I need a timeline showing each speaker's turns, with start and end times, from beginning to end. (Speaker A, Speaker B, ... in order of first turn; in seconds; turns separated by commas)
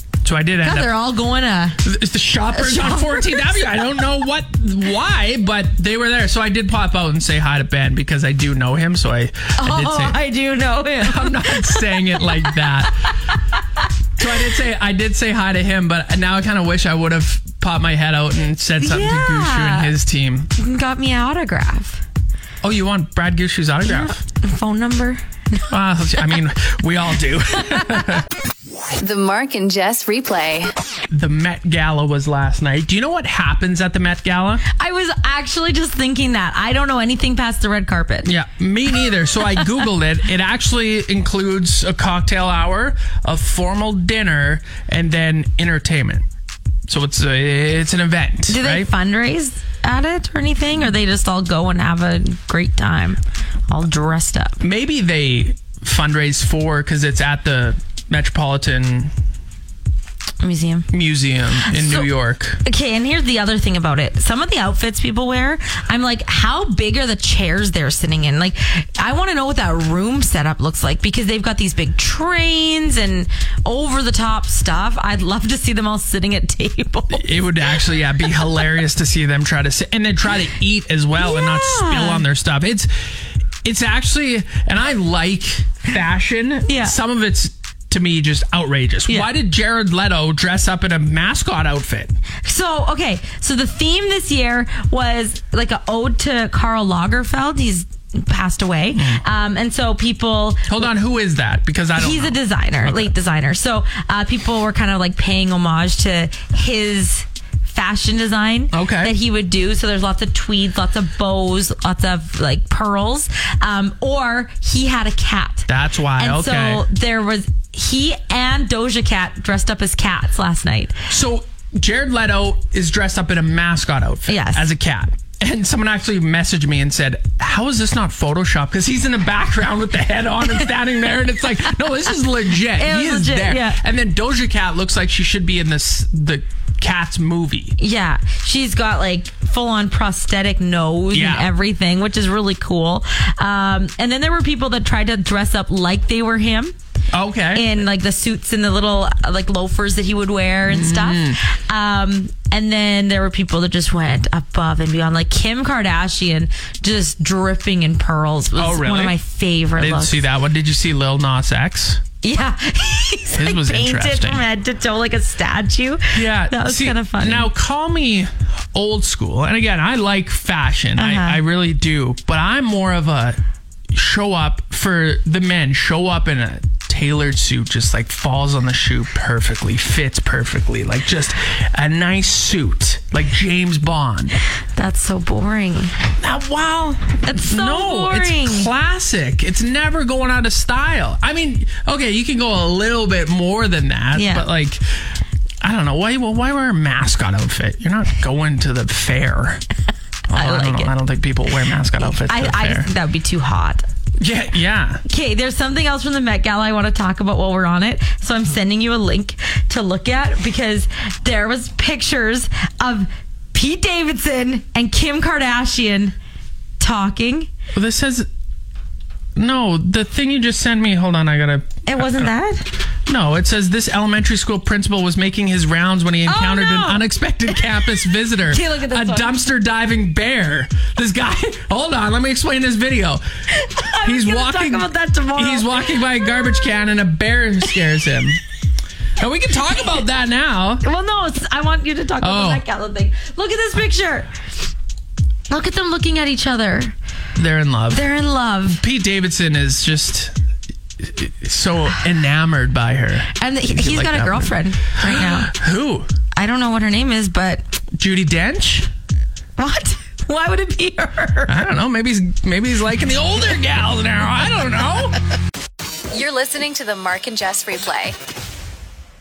Speaker A: 0.2-0.9, Speaker B: 0.6-1.8, Speaker A: 1.8-10.2, Speaker B: 2.5-3.8, Speaker B: 9.6-13.4, Speaker A: 11.0-13.1, Speaker A: 14.2-20.5, Speaker B: 18.8-19.9, Speaker B: 20.6-22.0, Speaker A: 22.6-24.2, Speaker B: 23.8-25.7, Speaker A: 25.7-28.3, Speaker C: 29.0-30.7, Speaker A: 31.1-34.6, Speaker B: 34.7-38.3, Speaker A: 38.2-46.3, Speaker A: 46.9-48.9, Speaker B: 48.5-54.6, Speaker A: 54.6-59.1, Speaker B: 60.4-60.9, Speaker A: 60.9-62.6, Speaker B: 61.7-62.1, Speaker B: 62.6-77.3, Speaker A: 77.1-92.1, Speaker B: 81.2-82.2, Speaker B: 86.7-86.9, Speaker B: 92.4-100.9, Speaker A: 98.9-99.2, Speaker A: 100.7-103.1, Speaker B: 102.0-121.0, Speaker A: 108.7-109.1, Speaker A: 115.7-116.8, Speaker A: 121.1-137.8, Speaker B: 124.3-124.7, Speaker B: 132.7-133.8, Speaker B: 137.8-146.8, Speaker A: 141.1-141.5, Speaker A: 147.1-147.8, Speaker B: 147.5-160.2, Speaker A: 150.7-151.4, Speaker A: 158.6-159.2, Speaker A: 159.8-162.0, Speaker B: 162.2-167.5, Speaker A: 163.3-164.4, Speaker A: 166.1-173.4, Speaker B: 171.0-171.4, Speaker A: 173.9-184.4, Speaker B: 184.8-185.9, Speaker A: 186.2-194.8, Speaker B: 187.2-188.7, Speaker B: 194.1-194.5, Speaker A: 195.6-199.6, Speaker A: 200.3-202.9, Speaker B: 200.3-200.9, Speaker B: 201.9-203.8, Speaker A: 204.2-205.0, Speaker B: 205.1-216.1, Speaker B: 216.8-217.5, Speaker A: 217.7-218.3, Speaker A: 219.3-222.3, Speaker B: 221.8-222.7, Speaker A: 223.1-233.2, Speaker B: 226.2-227.1, Speaker B: 228.5-229.3, Speaker B: 233.5-236.6, Speaker A: 234.0-238.4, Speaker A: 239.2-240.8, Speaker B: 240.8-244.3, Speaker A: 242.2-242.6, Speaker B: 245.5-246.9, Speaker A: 247.3-248.1, Speaker B: 247.9-248.8, Speaker A: 248.7-250.3, Speaker A: 251.0-256.1, Speaker B: 253.3-255.5, Speaker B: 256.3-257.6, Speaker A: 257.9-258.9, Speaker B: 259.6-261.6, Speaker A: 261.5-265.2, Speaker C: 266.1-268.2